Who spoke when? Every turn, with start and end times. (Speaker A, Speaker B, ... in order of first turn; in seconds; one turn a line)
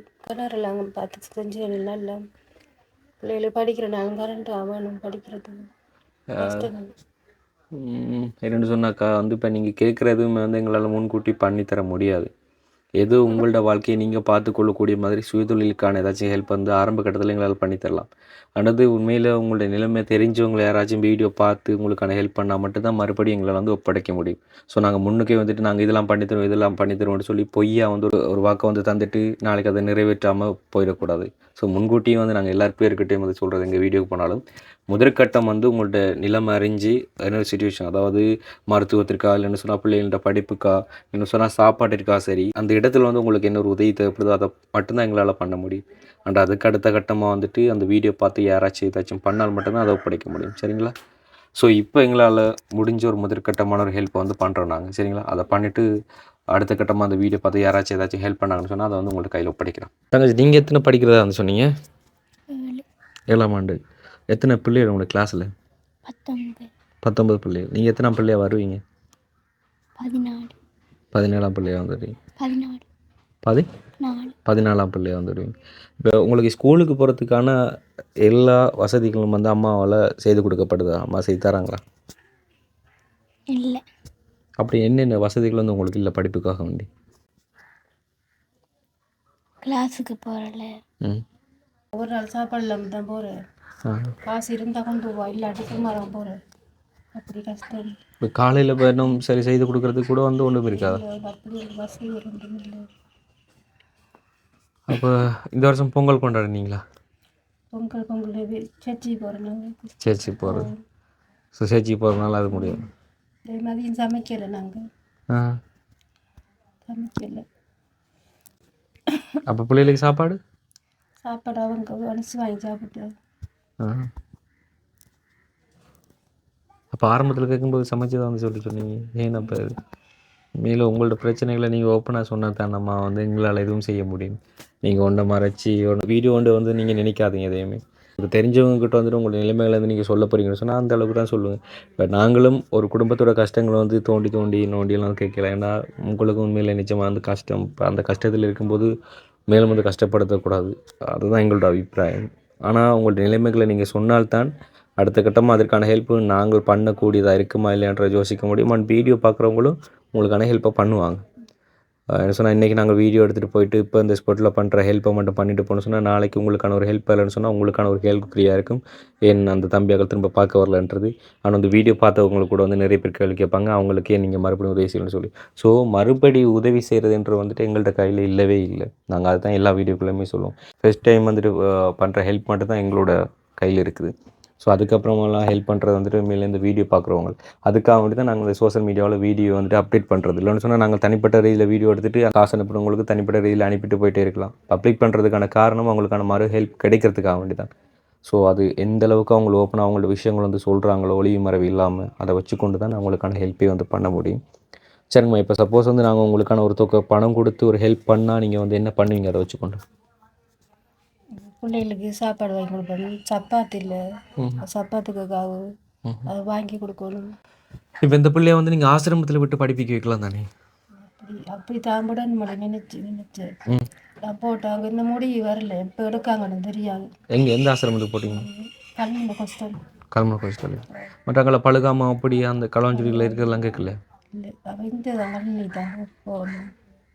Speaker A: 0.2-2.2
Speaker A: 3.2-5.7
Speaker B: 6.3-6.7
Speaker A: 6.4-6.9
Speaker B: 7.7-12.3
Speaker B: 13.0-50.9
Speaker B: 51.6-55.9
Speaker B: 56.5-61.7
Speaker C: 62.5-62.8
Speaker B: 63.3-63.8
Speaker B: 64.3-65.5
Speaker C: 66.0-66.7
Speaker B: 67.0-68.8
Speaker C: 70.0-70.5
Speaker B: 71.1-72.1
Speaker C: 72.4-72.8
Speaker C: 74.0-74.3
Speaker B: 74.5-77.5
Speaker B: 78.2-81.8
Speaker C: 83.5-83.8
Speaker B: 84.6-86.9
Speaker C: 89.6-90.8
Speaker A: 92.0-93.3
Speaker A: 94.3-96.3
Speaker A: 97.2-97.9
Speaker B: 98.2-101.0
Speaker A: 100.7-102.8
Speaker B: 104.9-106.8
Speaker A: 107.7-109.9
Speaker B: 110.0-110.7
Speaker A: 110.4-110.7
Speaker B: 111.5-112.8
Speaker A: 113.5-114.8
Speaker A: 116.8-117.4
Speaker B: 119.5-120.4
Speaker A: 121.2-123.0
Speaker B: 123.8-124.1
Speaker B: 126.9-129.8
Speaker B: 130.6-148.9
Speaker B: 149.5-161.2
Speaker B: 162.1-197.7
Speaker B: 198.2-204.4
Speaker B: 205.1-209.8
Speaker A: 211.5-214.0
Speaker A: 214.6-215.6
Speaker A: 216.3-217.3
Speaker B: 218.0-220.5
Speaker A: 221.0-223.5
Speaker A: 224.2-227.1
Speaker B: 227.3-228.4
Speaker A: 228.3-229.7
Speaker B: 230.1-234.0
Speaker A: 232.9-233.5
Speaker A: 234.3-236.7